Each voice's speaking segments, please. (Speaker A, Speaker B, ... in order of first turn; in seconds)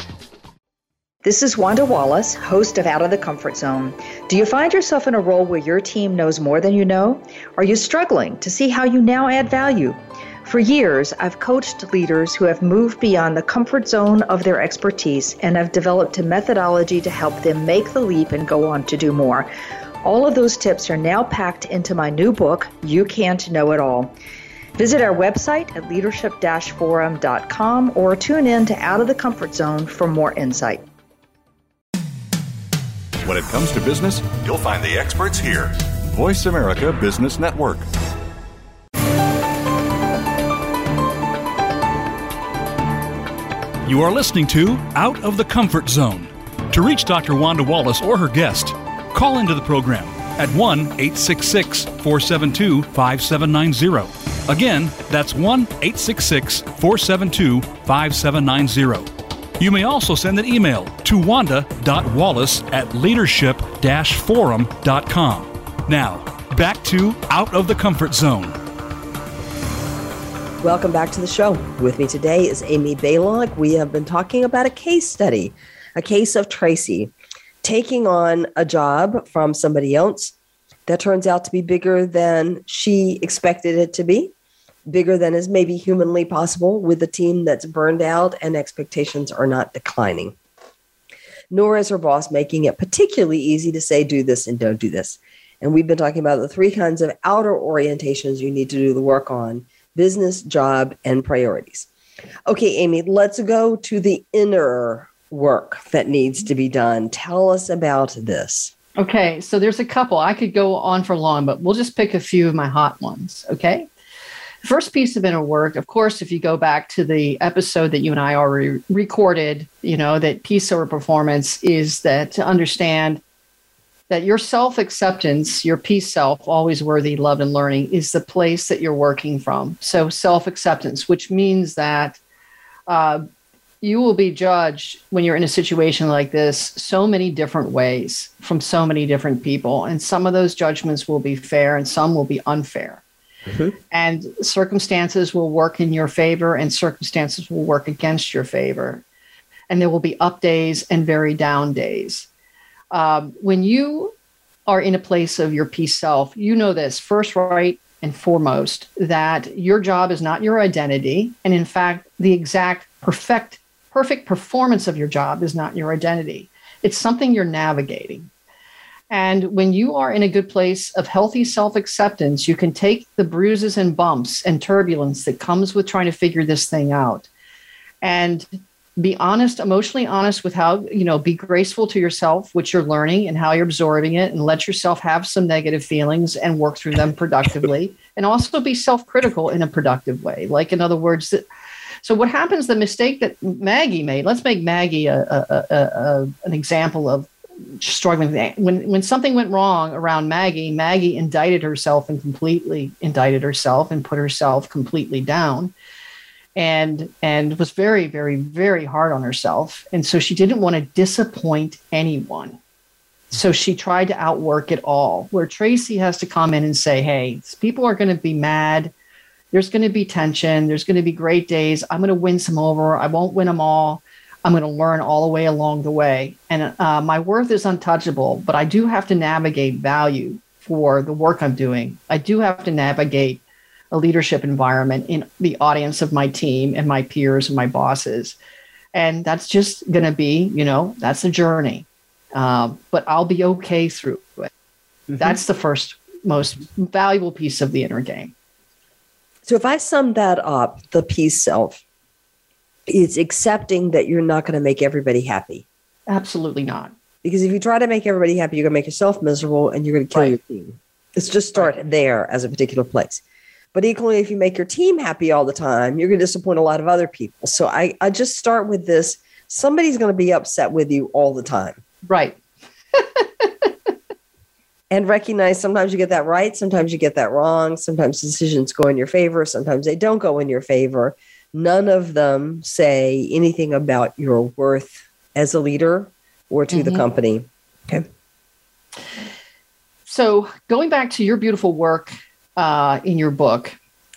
Speaker A: 1.2-19.5, 20.0-24.1, 24.8-30.9
Speaker B: 33.2-37.9
Speaker C: 43.8-59.1, 59.6-68.6
Speaker D: 70.6-77.1, 77.6-80.3, 80.9-84.3, 84.9-90.3, 91.5-101.9, 102.5-108.7, 143.5-143.7, 249.4-251.8, 252.9-255.6, 257.2-263.2, 263.7-271.8, 274.9-288.1
Speaker E: 109.0-113.9, 114.6-123.2, 124.1-132.2, 132.9-133.2, 133.8-143.0, 143.9-149.0, 149.7-152.3, 152.9-154.1, 154.7-168.3, 169.1-177.3, 178.0-191.4, 192.0-205.7, 206.6-212.6, 213.3-218.9, 219.5-238.3, 238.9-244.5, 245.2-248.3, 256.1-256.9, 272.1-272.4, 272.9-273.5, 286.7-287.0, 290.1-293.7